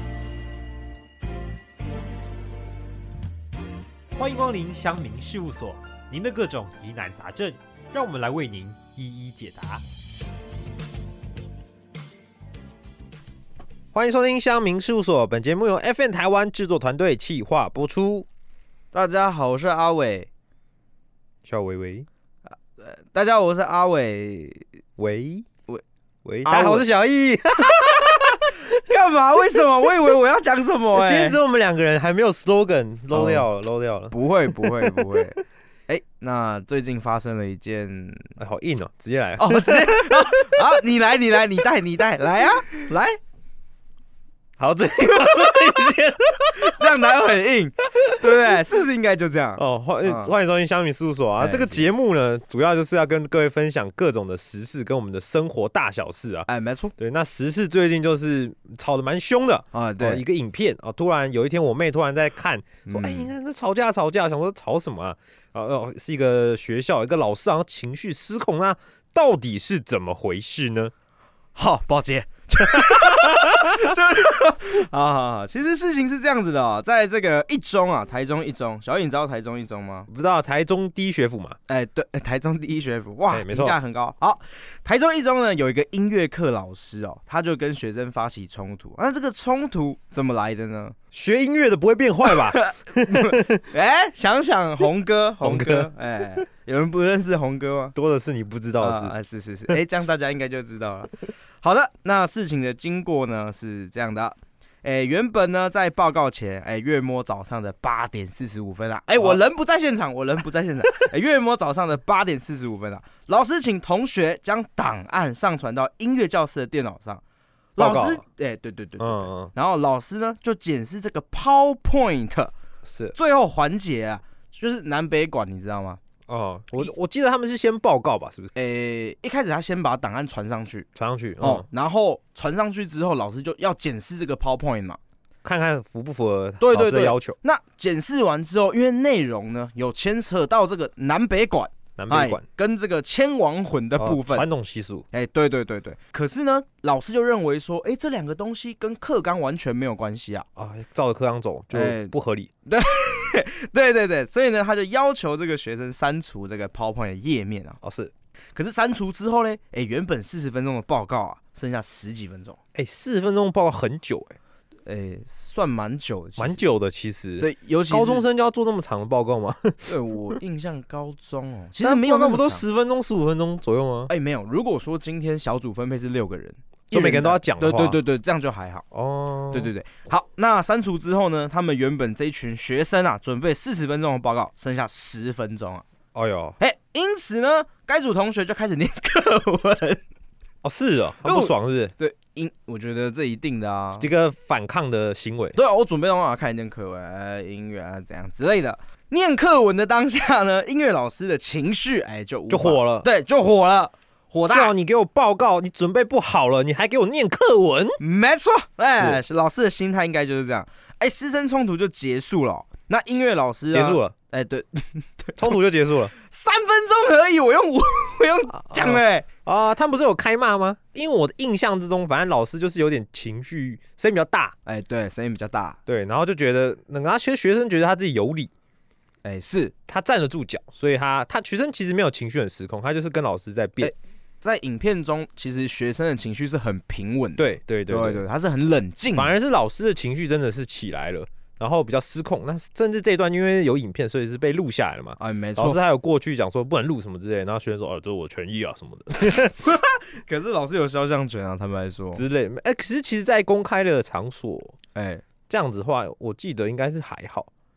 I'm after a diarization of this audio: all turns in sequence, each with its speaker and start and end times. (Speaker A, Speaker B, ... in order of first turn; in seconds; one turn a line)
Speaker A: 4.2-9.8
Speaker A: 13.9-18.3
Speaker B: 18.9-20.3
Speaker A: 21.4-22.1
Speaker B: 22.5-24.6
Speaker A: 25.0-25.5
Speaker A: 26.2-28.6
Speaker B: 26.4-26.9
Speaker B: 27.8-31.4
Speaker A: 30.9-35.0
Speaker B: 33.1-33.4
Speaker B: 34.1-38.3
Speaker A: 38.4-40.6
Speaker B: 39.4-43.2
Speaker A: 44.6-47.1
Speaker B: 46.5-50.3
Speaker A: 48.1-48.3
Speaker A: 49.6-70.9
Speaker B: 51.4-51.9
Speaker B: 56.5-56.9
Speaker B: 59.7-60.2
Speaker B: 62.9-63.3
Speaker B: 71.5-80.1
Speaker A: 72.7-74.0
Speaker A: 80.1-81.5
Speaker B: 81.7-91.0
Speaker A: 83.3-83.8
Speaker A: 91.1-93.6
Speaker B: 92.3-97.9
Speaker A: 95.4-96.4
Speaker A: 97.9-99.1
Speaker B: 98.8-117.2
Speaker A: 117.8-118.2
Speaker B: 117.8-122.5
Speaker A: 119.0-119.5
Speaker A: 122.8-123.2
Speaker B: 123.1-126.0
Speaker A: 126.3-128.5
Speaker B: 128.5-130.8
Speaker A: 130.9-131.7
Speaker B: 131.4-135.0
Speaker A: 135.4-137.3
Speaker B: 136.6-144.4
Speaker A: 142.0-142.4
Speaker A: 144.0-145.1
Speaker B: 145.1-150.4
Speaker A: 150.6-152.5
Speaker B: 151.7-152.1
Speaker B: 152.7-157.8
Speaker A: 157.8-158.1
Speaker B: 158.5-162.6
Speaker A: 162.7-164.3
Speaker B: 164.8-166.6
Speaker A: 166.4-169.9
Speaker B: 167.4-168.2
Speaker B: 169.8-172.6
Speaker A: 171.8-174.1
Speaker B: 174.1-178.8
Speaker A: 176.9-178.0
Speaker A: 178.9-179.7
Speaker B: 179.5-185.8
Speaker A: 186.1-186.6
Speaker B: 186.6-190.0
Speaker A: 190.6-191.9
Speaker B: 191.2-194.1
Speaker A: 194.0-195.6
Speaker B: 195.6-204.7
Speaker A: 202.5-203.1
Speaker A: 204.5-208.0
Speaker B: 208.0-215.6
Speaker A: 213.7-214.1
Speaker A: 215.4-216.1
Speaker B: 216.1-219.3
Speaker A: 218.6-224.5
Speaker B: 224.7-225.8
Speaker A: 225.8-228.5
Speaker B: 229.2-229.7
Speaker A: 229.9-233.9
Speaker B: 233.8-239.3
Speaker A: 237.4-238.2
Speaker A: 239.1-249.8
Speaker B: 245.2-245.8
Speaker B: 249.3-252.2
Speaker A: 252.1-254.8
Speaker B: 254.9-255.2
Speaker A: 255.5-257.5